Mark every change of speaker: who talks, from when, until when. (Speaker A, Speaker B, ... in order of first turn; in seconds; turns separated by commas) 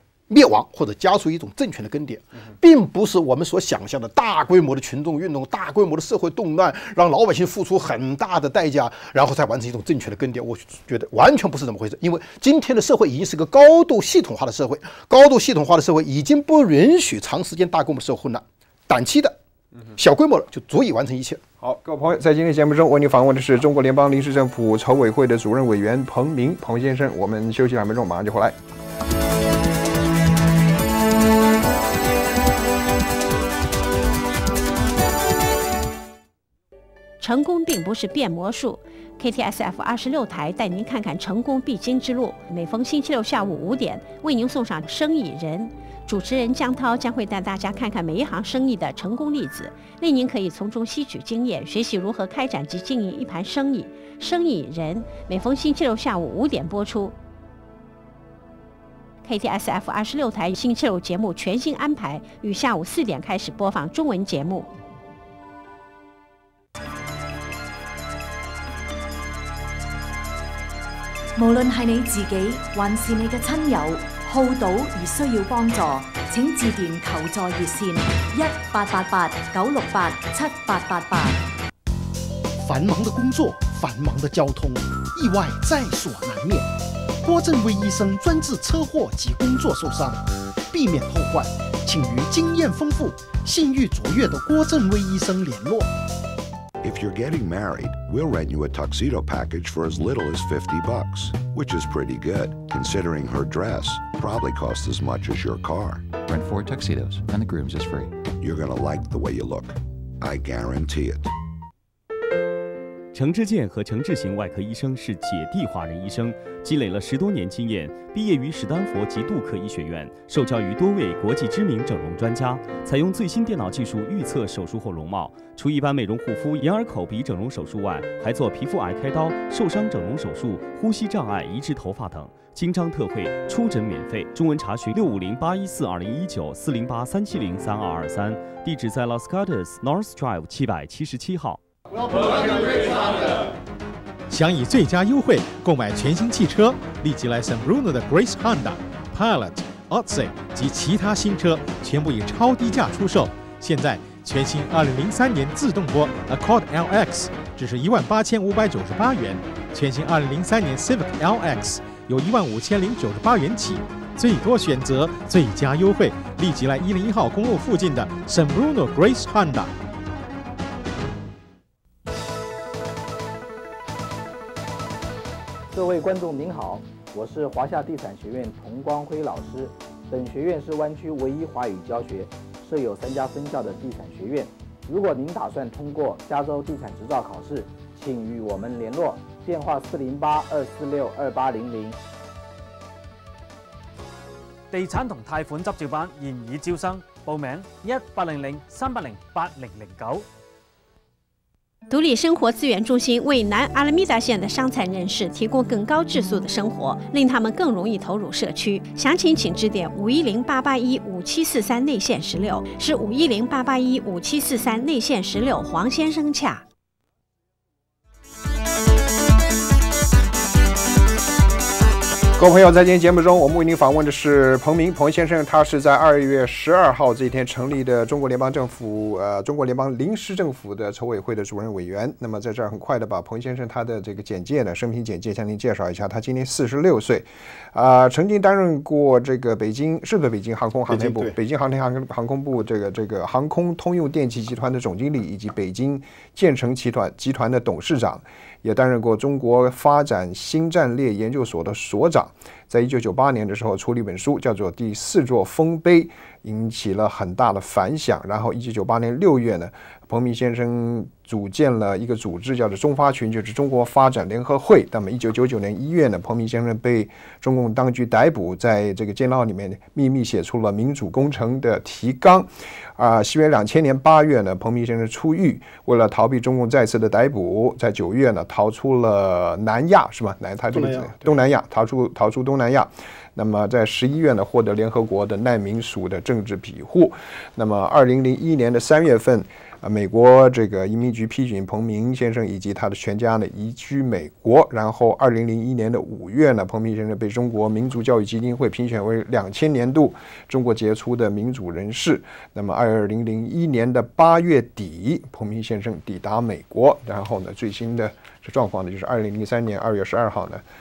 Speaker A: 0.3-19.4, Speaker A: 19.9-21.4, Speaker B: 21.6-28.6, Speaker C: 37.2-57.1, Speaker C: 59.2-64.7, Speaker D: 71.3-81.4, Speaker E: 82.6-86.7, Speaker E: 87.2-95.9, Speaker F: 96.8-106.2, Speaker G: 106.2-108.2, Speaker F: 108.2-111.3, Speaker H: 113.1-141.6, Speaker I: 144.3-169.7, Speaker J: 175.7-192.0, Speaker K: 194.7-200.2, Speaker C: 201.9-216.6, Speaker B: 222.4-310.6, Speaker A: 240.9-241.3, Speaker A: 280.7-281.3